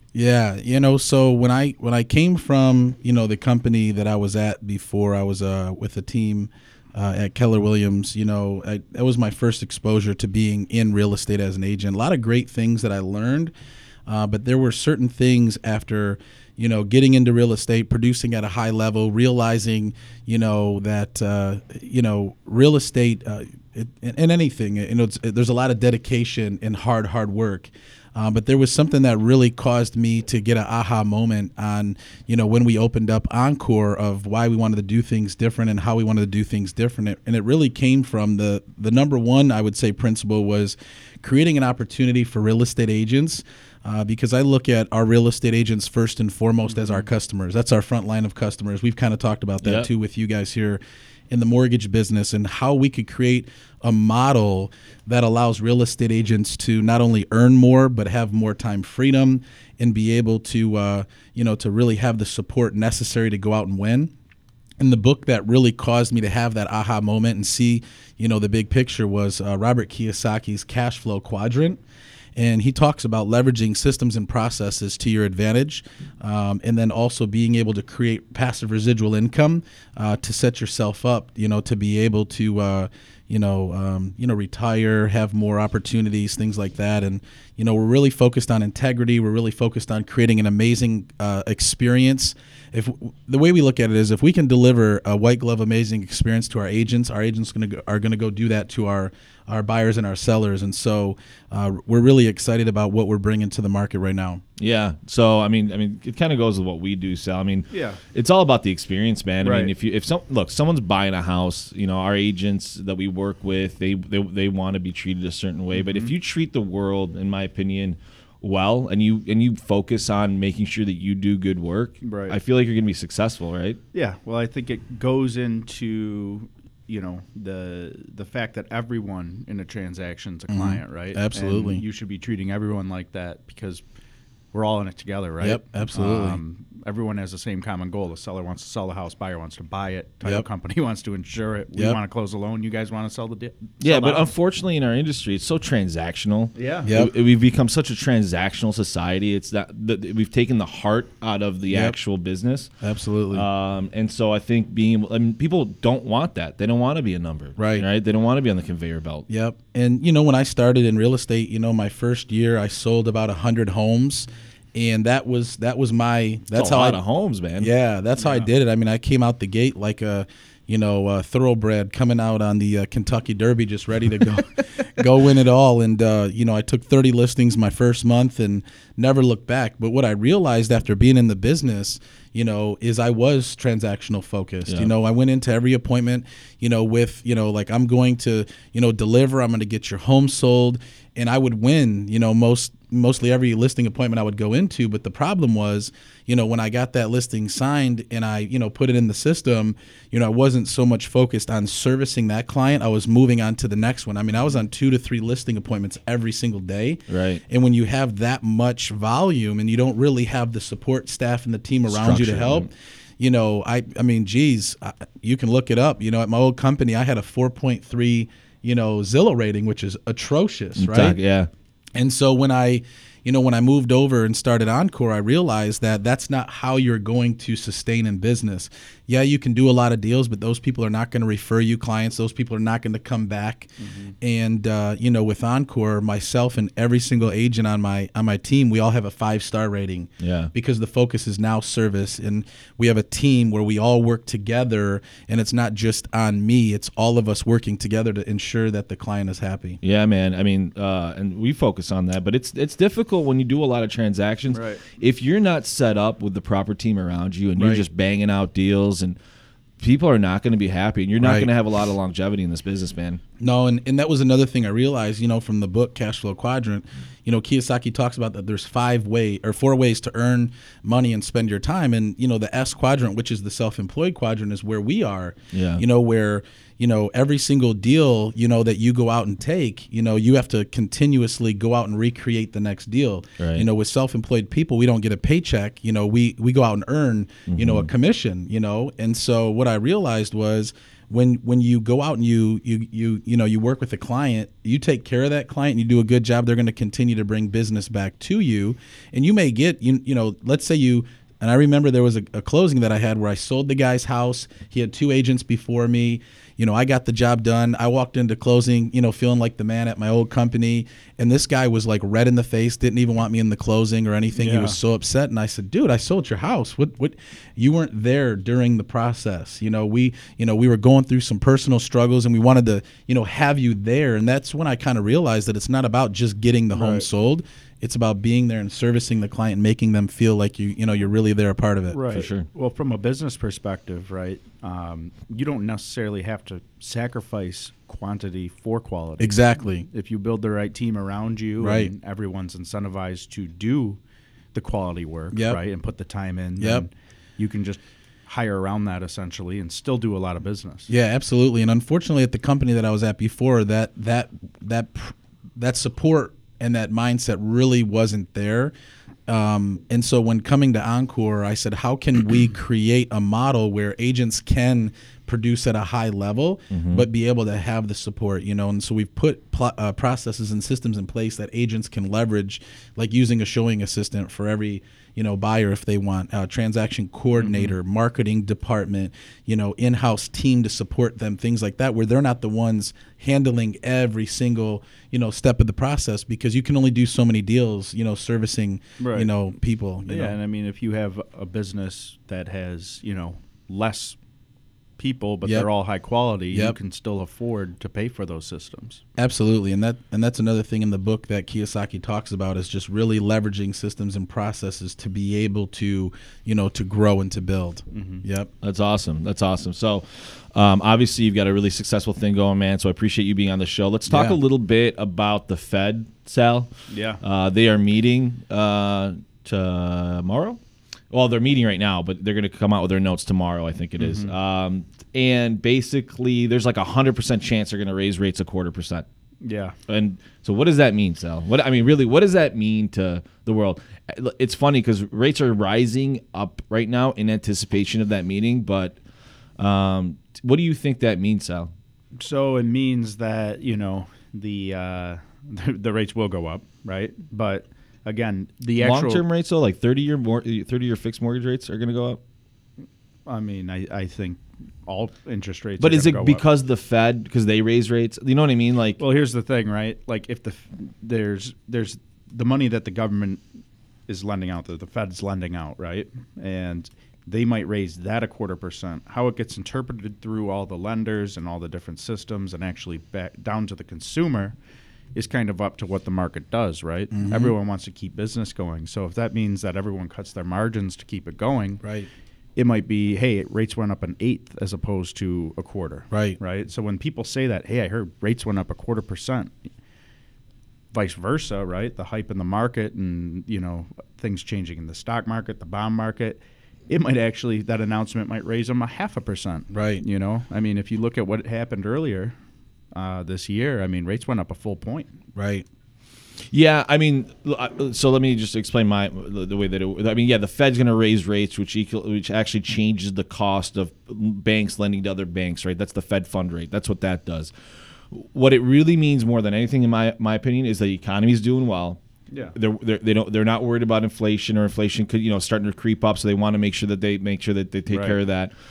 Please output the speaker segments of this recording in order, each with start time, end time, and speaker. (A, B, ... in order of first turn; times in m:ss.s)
0:00.2-0:13.5 A
0:14.1-1:04.1 A
0:49.6-0:49.9 B
1:04.8-1:11.8 A
1:12.4-1:44.4 A
1:44.6-2:03.8 B
1:47.7-1:48.0 C
1:49.4-1:49.7 C
1:55.7-1:56.1 C
2:02.0-2:02.4 C
2:03.9-2:13.8 C
2:10.5-2:11.8 A
2:14.5-2:24.3 C
2:15.4-2:16.4 A
2:23.8-2:32.7 B
2:26.6-2:26.9 C
2:26.8-2:27.1 A
2:31.7-2:32.0 A
2:32.8-2:33.5 A
2:33.3-2:39.3 B
2:37.6-2:37.9 A
2:39.3-2:47.0 A
2:46.5-2:47.7 B
2:47.6-3:41.2 A
2:48.2-2:48.5 C
3:27.1-3:27.4 B
3:31.9-3:32.7 B
3:40.8-3:41.5 B
3:42.0-4:09.8 A
3:53.8-3:54.1 C
4:00.2-4:00.5 B
4:09.8-4:19.2 B
4:14.5-4:14.8 C
4:17.6-4:17.8 A
4:19.8-4:23.2 B
4:21.2-4:21.5 A
4:23.4-5:32.0 A
4:35.5-4:35.8 B
4:43.4-4:43.7 B
4:47.5-4:47.9 B
5:14.4-5:14.8 C
5:26.7-5:27.1 C
5:31.9-5:44.0 C
5:32.1-5:32.5 B
5:39.2-5:39.9 A
5:41.6-5:41.9 A
5:44.5-5:50.9 C
5:45.3-5:45.6 A
5:46.6-5:46.9 A
5:50.9-5:58.7 A
5:59.3-6:30.4 A
6:06.7-6:07.0 B
6:17.4-6:17.7 C
6:29.0-6:29.3 C
6:30.1-6:34.2 C
6:35.0-6:39.0 C
6:39.2-6:48.5 A
6:47.9-6:48.2 C
6:48.6-7:00.6 B
6:54.1-6:54.4 A
6:56.9-6:57.2 C
7:01.1-7:09.0 B
7:04.0-7:04.3 C
7:09.4-7:09.8 C
7:09.9-7:19.0 B
7:19.6-7:21.7 B
7:22.2-7:29.2 C
7:28.8-7:32.2 B
7:33.3-7:36.4 C
7:35.8-7:39.0 B
7:39.0-7:43.4 C
7:44.1-7:54.6 C
7:55.2-8:01.8 C
7:57.1-7:57.5 A
8:01.8-8:02.1 A
8:02.6-8:09.6 C
8:06.1-8:06.4 A
8:10.9-8:22.4 C
8:19.7-8:20.0 A
8:22.9-8:25.1 C
8:25.4-8:25.6 A
8:26.5-8:37.5 B
8:38.1-8:42.0 B
8:42.6-8:48.5 B
8:47.9-8:48.2 C